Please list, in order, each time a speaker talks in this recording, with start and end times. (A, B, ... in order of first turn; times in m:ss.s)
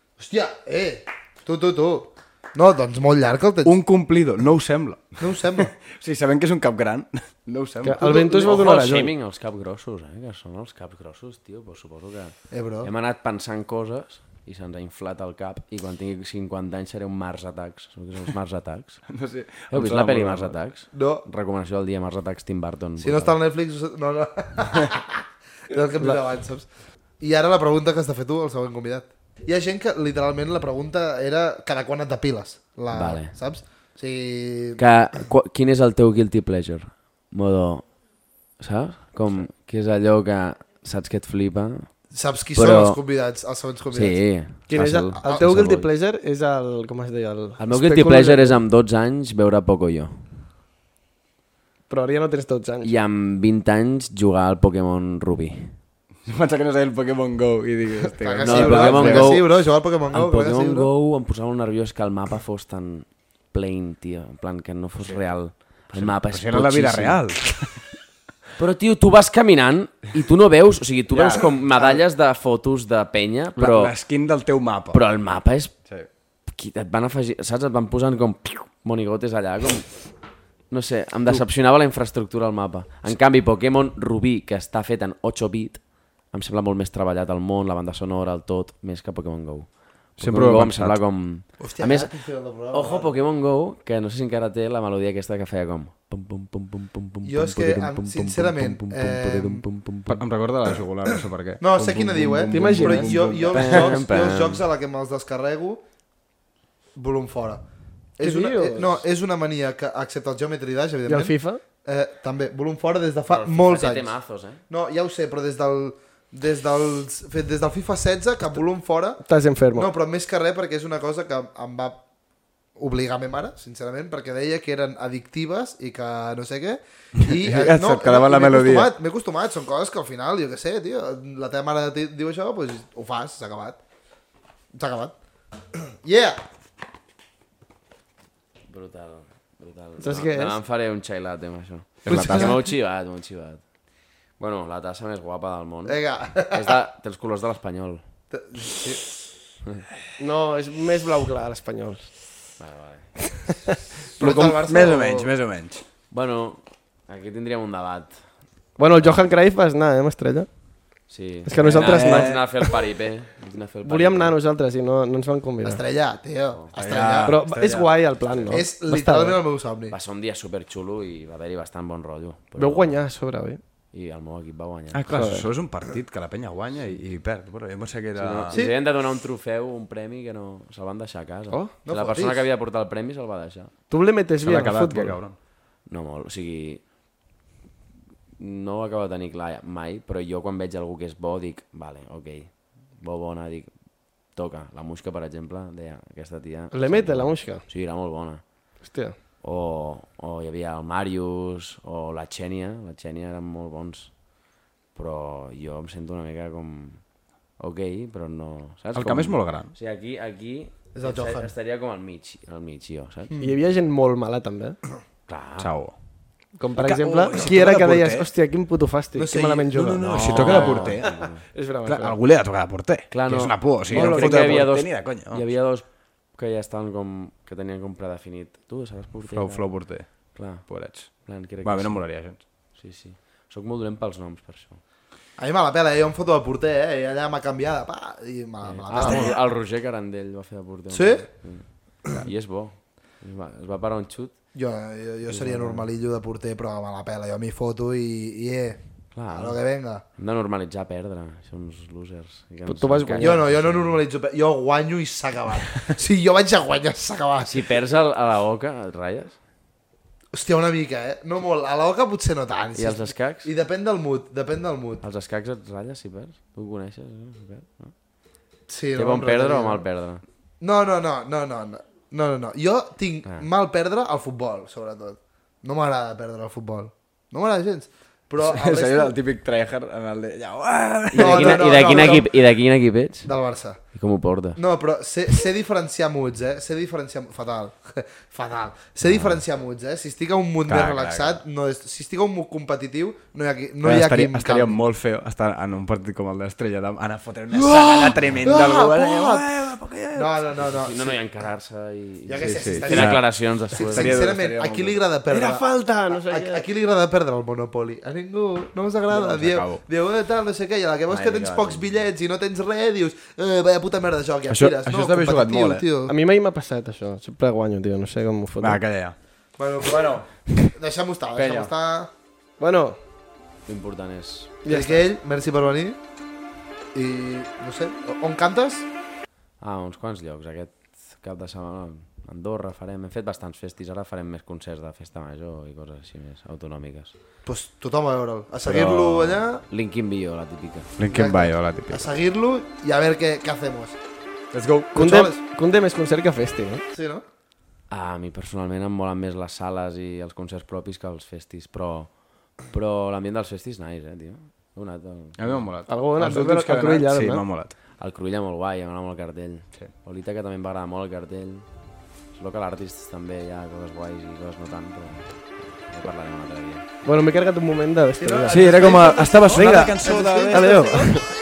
0:00.2-0:03.8 A
0:03.6-0:08.0 B
0:05.2-0:05.7 A
0:07.8-0:09.1 C
0:08.0-0:08.6 A
0:08.4-0:19.1 D
0:12.5-0:12.9 A
0:19.1-0:20.6 B
0:19.7-0:23.4 D
0:20.9-0:21.3 A
0:23.0-0:26.7 A
0:27.2-0:34.8 A
0:32.9-0:33.4 D
0:34.8-0:41.9 D
0:42.1-0:44.2 A
0:42.6-0:43.0 D
0:43.9-0:45.9 D
0:44.7-0:48.6 C
0:45.2-0:45.6 A
0:47.6-0:50.3 D
0:51.9-0:52.9 C
0:52.8-0:55.8 D
0:56.2-0:59.4 B
0:58.1-1:00.9 A
0:58.4-1:07.2 D
1:05.0-1:07.8 B
1:08.6-1:14.0 D
1:11.1-1:11.6 B
1:13.6-1:15.0 B
1:14.9-1:15.8 D
1:16.5-1:19.9 D
1:20.7-1:32.1 D
1:30.2-1:31.0 B
1:31.6-1:33.1 A
1:32.7-1:40.2 D
1:37.2-1:39.6 A
1:40.1-1:44.0 B
1:41.6-1:45.8 A
1:42.5-1:43.2 C
1:43.5-1:44.6 D
1:47.0-1:47.6 A
1:48.2-1:54.1 A
1:48.2-1:49.0 C
1:51.1-1:51.6 C
1:53.3-1:54.6 D
1:54.7-2:02.0 A
1:59.3-1:59.9 C
2:02.8-2:13.8 A
2:07.3-2:08.9 B
2:14.7-2:15.2 A
2:15.7-2:16.4 A
2:18.7-2:23.6 D
2:20.0-2:20.6 C
2:22.1-2:22.6 B
2:22.1-2:22.6 C
2:24.4-2:28.0 D
2:25.9-2:26.8 A
2:28.3-2:29.0 A
2:30.2-2:32.2 C
2:32.6-2:33.2 D
2:34.2-2:35.3 A
2:34.2-2:35.8 B
2:36.1-2:38.2 D
2:38.8-2:40.5 C
2:41.1-2:44.4 D
2:41.5-2:42.7 C
2:41.6-2:42.5 B
2:43.8-2:45.8 C
2:45.6-2:47.4 A
2:46.7-2:48.0 B
2:47.2-2:49.4 C
2:48.5-2:50.0 A
2:49.9-2:53.0 D
2:52.6-2:53.6 C
2:53.9-2:55.0 D
2:54.9-2:58.6 B
2:55.1-2:55.5 C
2:58.2-3:03.7 D
3:01.8-3:02.4 A
3:03.9-3:05.2 C
3:04.4-3:05.4 B
3:05.9-3:06.8 D
3:08.4-3:13.7 D
3:14.3-3:18.4 D
3:16.7-3:17.6 C
3:18.8-3:19.2 C
3:19.4-3:24.2 D
3:24.9-3:27.0 D
3:27.6-3:33.4 D
3:29.0-3:29.7 B
3:30.9-3:31.5 A
3:33.4-3:34.8 C
3:35.3-3:35.7 D
3:35.6-3:36.0 B
3:36.6-3:42.2 C
3:36.8-3:38.3 B
3:39.2-3:39.7 A
3:39.7-3:41.3 B
3:40.1-3:41.4 D
3:40.4-3:40.8 A
3:41.8-3:45.4 B
3:43.1-3:54.8 D
3:43.9-3:44.6 C
3:49.3-3:52.4 B
3:55.4-3:59.4 A
3:58.6-4:04.4 D
3:59.0-3:59.4 B
4:00.9-4:01.3 A
4:04.5-4:10.0 A
4:05.3-4:05.9 D
4:09.1-4:14.0 D
4:12.7-4:13.5 C
4:13.2-4:17.7 A
4:17.4-4:19.4 D
4:20.3-4:25.0 A
4:22.8-4:23.5 D
4:25.0-4:28.0 D
4:28.7-4:29.8 A
4:29.0-4:30.2 D
4:30.6-4:39.2 A
4:38.4-4:42.2 B
4:41.1-4:42.3 A
4:41.1-4:43.3 D
4:43.2-4:43.8 A
4:43.9-4:44.6 D
4:44.6-4:54.8 A
4:49.0-4:49.4 D
4:50.7-4:51.4 B
4:53.8-5:00.5 B
4:57.5-4:59.5 A
5:00.1-5:01.2 A
5:00.7-5:04.2 D
5:02.3-5:16.1 A
5:02.4-5:03.3 B
5:03.8-5:05.0 B
5:05.3-5:06.6 C
5:09.1-5:09.8 B
5:11.1-5:12.1 D
5:14.5-5:15.9 B
5:16.1-5:18.8 C
5:18.6-5:19.2 B
5:19.6-5:22.1 A
5:19.9-5:20.2 B
5:21.3-5:21.7 D
5:22.6-5:23.0 C
5:23.7-5:24.5 D
5:24.6-5:25.0 C
5:24.7-5:26.0 A
5:26.9-5:28.9 A
5:29.6-5:37.1 D
5:37.4-5:39.6 A
5:38.6-5:40.9 D
5:41.0-5:42.1 B
5:41.1-5:44.0 A
5:44.5-5:45.0 B
5:44.9-5:45.4 A
5:44.9-5:46.8 C
5:46.9-5:47.2 A
5:47.9-5:55.7 D
5:55.4-5:57.7 B
5:55.9-5:57.4 C
5:58.0-6:01.7 D
6:02.3-6:06.8 D
6:07.0-6:11.3 C
6:08.2-6:11.2 A
6:08.5-6:11.2 B